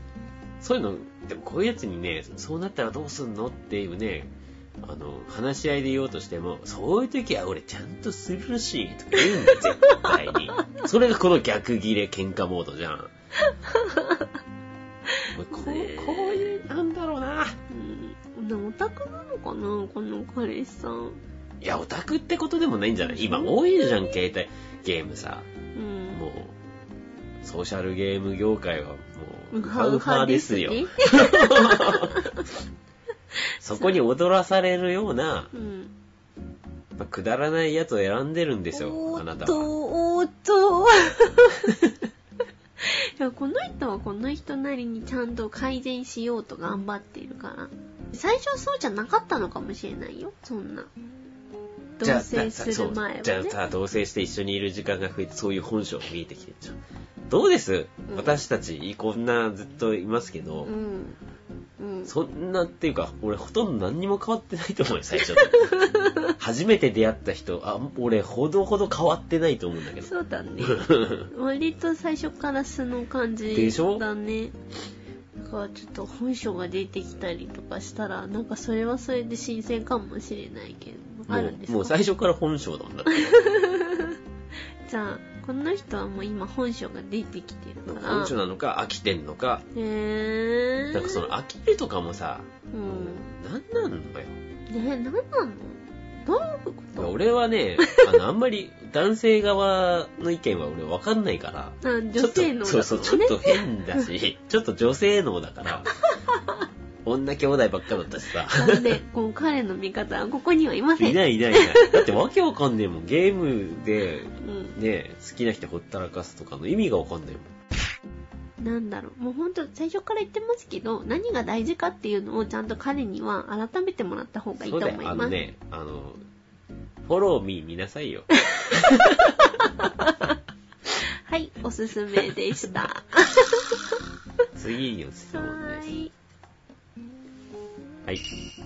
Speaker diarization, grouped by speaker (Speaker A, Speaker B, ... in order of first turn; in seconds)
Speaker A: 0.6-13.1, 15.3-17.6, 21.6-25.4, 26.1-26.5, 27.4-32.3, 33.6-35.5, 37.0-39.7, 52.0-56.8, 57.3-60.7, 62.0-71.3, 73.5-74.0, 81.3-83.2, 87.8-89.7, 90.9-94.3, 97.0-105.9, 107.0-109.0, 111.0-117.5, 124.6-126.2, 127.0-129.7, 134.6-135.9
Speaker B: 9.5-10.8, 13.4-14.3, 15.2-16.6, 17.7-21.2, 23.0-23.6, 25.7-26.2, 29.5-32.4, 35.5-35.9, 38.7-41.7, 42.8-50.9, 52.0-53.6, 58.1-58.4, 60.6-61.2, 61.8-62.1, 65.3-66.3, 70.0-74.5, 75.4-82.0, 83.1-84.2, 84.8-88.3, 89.7-91.3, 92.7-93.3, 94.7-97.1, 101.8-104.0, 106.1-106.6, 108.5-112.0, 114.4-114.8, 118.6-125.3, 128.6-130.3, 131.0-134.0, 135.3-136.1